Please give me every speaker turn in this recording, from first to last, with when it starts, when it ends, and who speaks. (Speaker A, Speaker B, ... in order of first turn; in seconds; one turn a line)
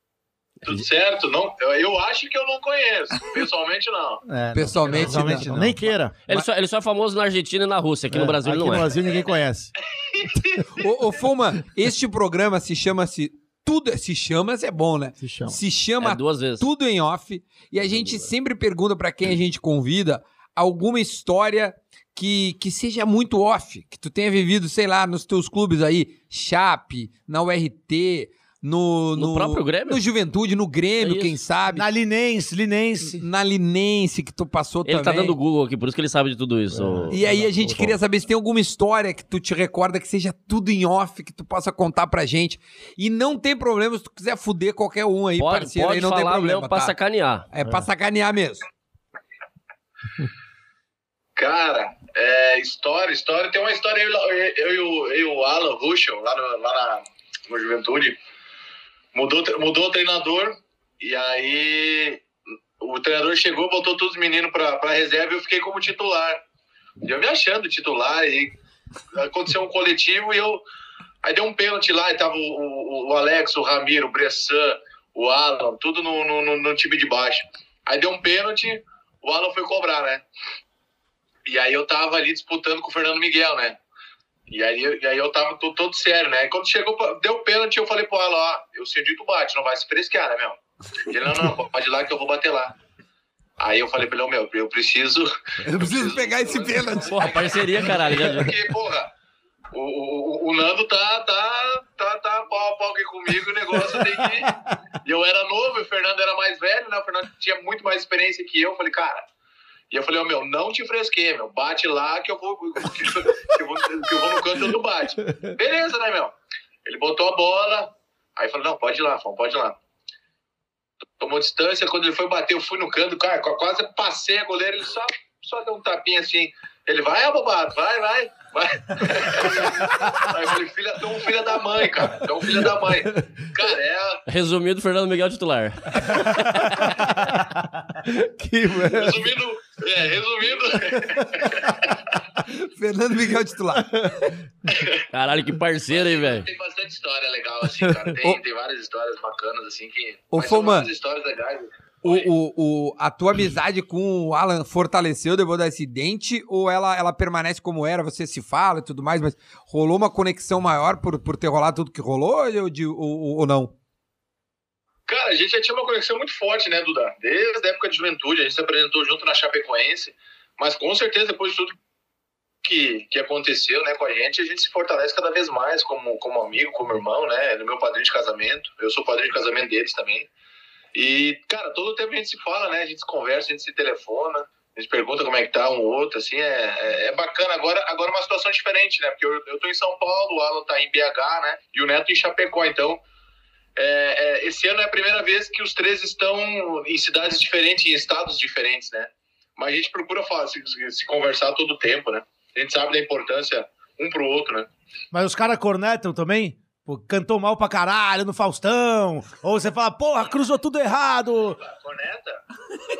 Speaker A: 0.6-4.2
Speaker B: 4.2-6.0
Speaker C: 4.5-5.5
Speaker D: 4.9-6.1
Speaker E: 6.3-8.9
Speaker D: 8.1-9.7
Speaker A: 9.8-10.7
Speaker C: 10.7-31.9
Speaker D: 15.2-15.6
Speaker E: 16.0-16.7
Speaker E: 17.8-18.3
Speaker E: 29.1-30.0
Speaker E: 31.0-31.4
Speaker B: 31.7-33.2
Speaker C: 33.1-35.4
Speaker E: 34.9-37.2
Speaker D: 36.7-38.0
Speaker C: 37.1-46.9
Speaker E: 45.4-47.5
Speaker C: 47.5-48.6
Speaker A: 51.4-58.2
Speaker A: 59.1-62.2
Speaker A: 62.8-66.4
Speaker A: 67.0-68.5
Speaker A: 69.1-70.6
Speaker A: 71.2-80.2
Speaker A: 81.5-83.8
Speaker A: 84.5-92.7
Speaker A: 93.6-99.1
Speaker C: 95.6-97.9
Speaker E: 97.1-98.6
Speaker A: 99.7-109.3
Speaker A: 109.9-116.3
Speaker A: 116.8-119.8
Speaker A: 121.2-134.2
Speaker E: 134.3-136.9
Speaker D: 138.0-139.3
Speaker A: 138.9-142.2
Speaker C: 142.4-144.3
Speaker A: 144.7-145.1
Speaker E: 145.1-146.5
Speaker A: 145.9-152.3
Speaker D: 147.8-148.1
Speaker C: 150.3-150.9
Speaker C: 152.0-163.7
Speaker A: 165.1-171.7
Speaker A: 172.6-180.3
Speaker A: 180.9-193.0
Speaker A: 193.8-204.7
Speaker B: 205.1-211.6
Speaker A: 211.6-212.4